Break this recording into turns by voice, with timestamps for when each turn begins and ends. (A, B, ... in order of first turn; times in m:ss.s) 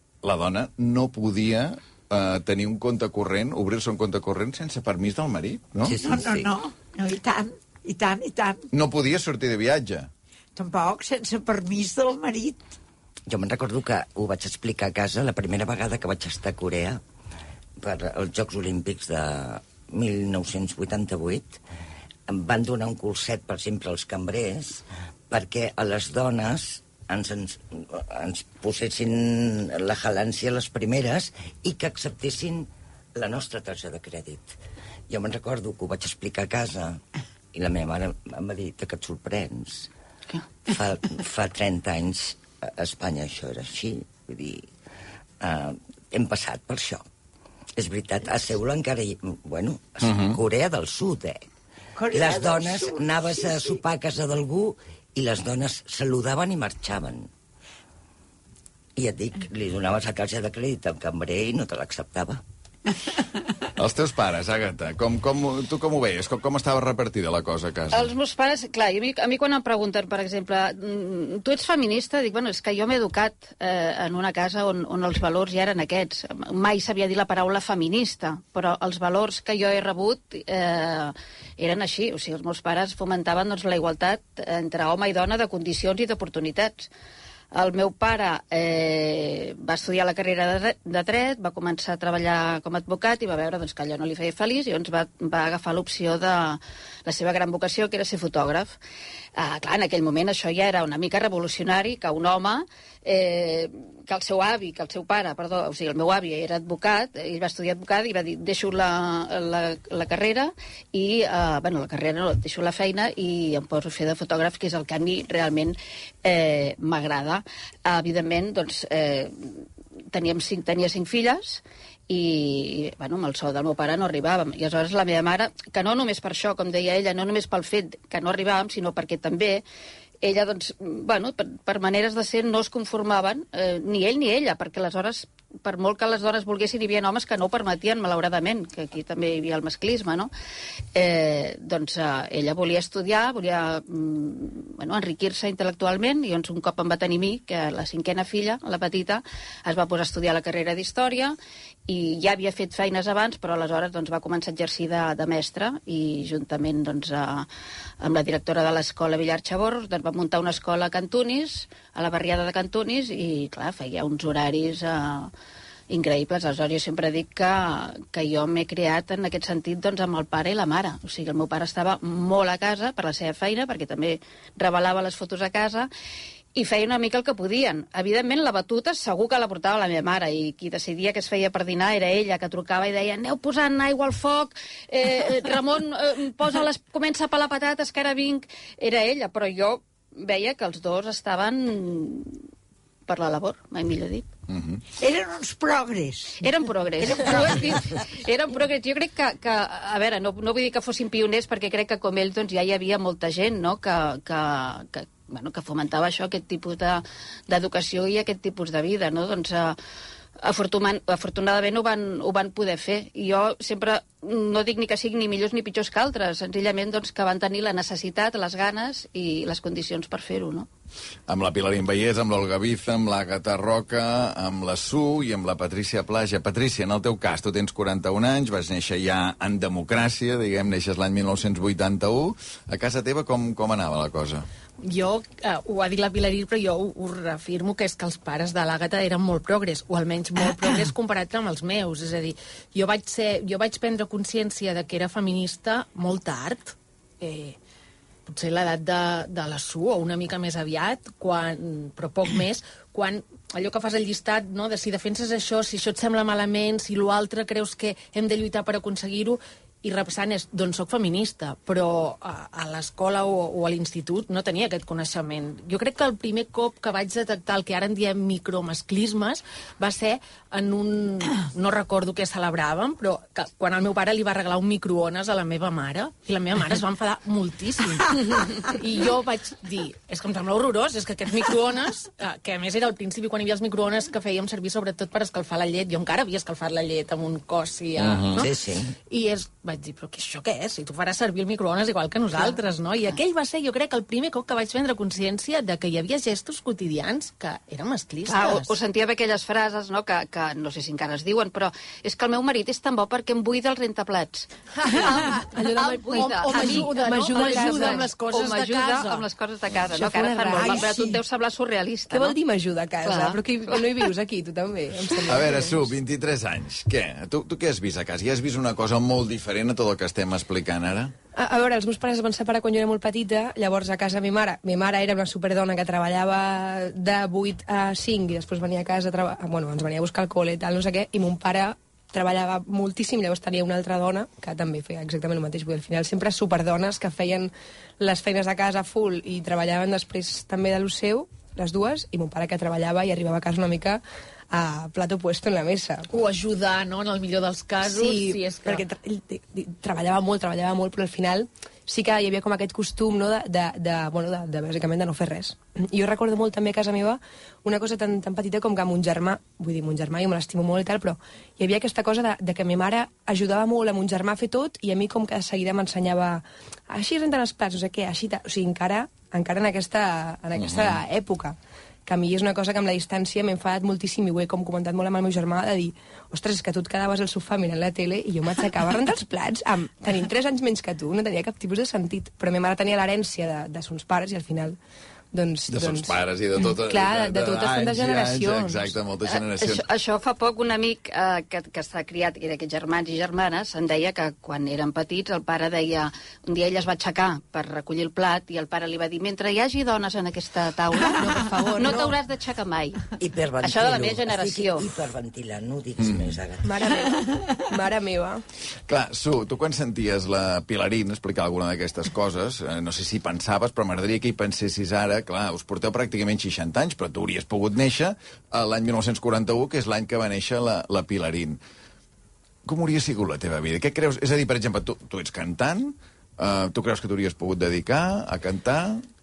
0:00.2-0:06.0 A
0:05.8-0:06.5 B
0:06.0-0:08.7 C
0:08.7-0:10.1 A
0:10.6-0:12.7 C
0:13.3-0:17.0 B
0:17.8-0:21.6 B
0:22.3-0:34.6 B
0:35.1-0:37.0 B
0:37.5-0:39.9 B
0:40.6-0:44.7 B
0:45.4-0:47.0 B
0:47.8-0:51.5 B
0:50.0-0:50.4 A
0:52.0-0:53.8 C
0:52.1-0:57.3 B
0:59.0-1:02.4 B
1:03.8-1:08.1 A
1:07.9-1:26.9 D
1:27.5-1:38.8 D
1:39.4-2:09.6 D
2:10.2-2:20.3 D
2:21.0-2:37.5 D
2:38.0-2:45.3 D
2:45.9-2:55.9 D
2:56.6-3:12.5 D
3:13.1-3:14.3 D
3:14.5-3:14.8 A
3:15.0-3:16.4 C
3:16.4-3:29.8 D
3:17.0-3:18.0 C
3:30.4-3:40.7 D
3:41.3-3:54.5 A
3:54.8-4:07.6 E
4:08.3-4:48.5 E
4:48.0-4:48.5 A
4:48.3-4:48.9 B
4:49.1-4:58.7 E
4:58.3-5:12.4 D
5:04.8-5:09.3 E
5:05.1-5:08.1 F
5:09.9-5:11.2 F
5:12.1-5:15.7 F
5:13.0-5:14.1 D
5:15.3-5:21.1 A
5:21.4-5:46.1 F
5:46.1-5:48.8 E
5:47.8-6:24.8 F
6:10.6-6:11.0 A
6:25.3-6:28.9 F
6:25.7-6:29.9 A
6:29.3-6:44.9 D
6:41.0-6:42.2 F
6:43.2-6:46.7 B
6:46.0-6:46.4 A
6:46.6-6:48.4 F
6:48.9-7:01.6 A
7:02.6-7:09.0 A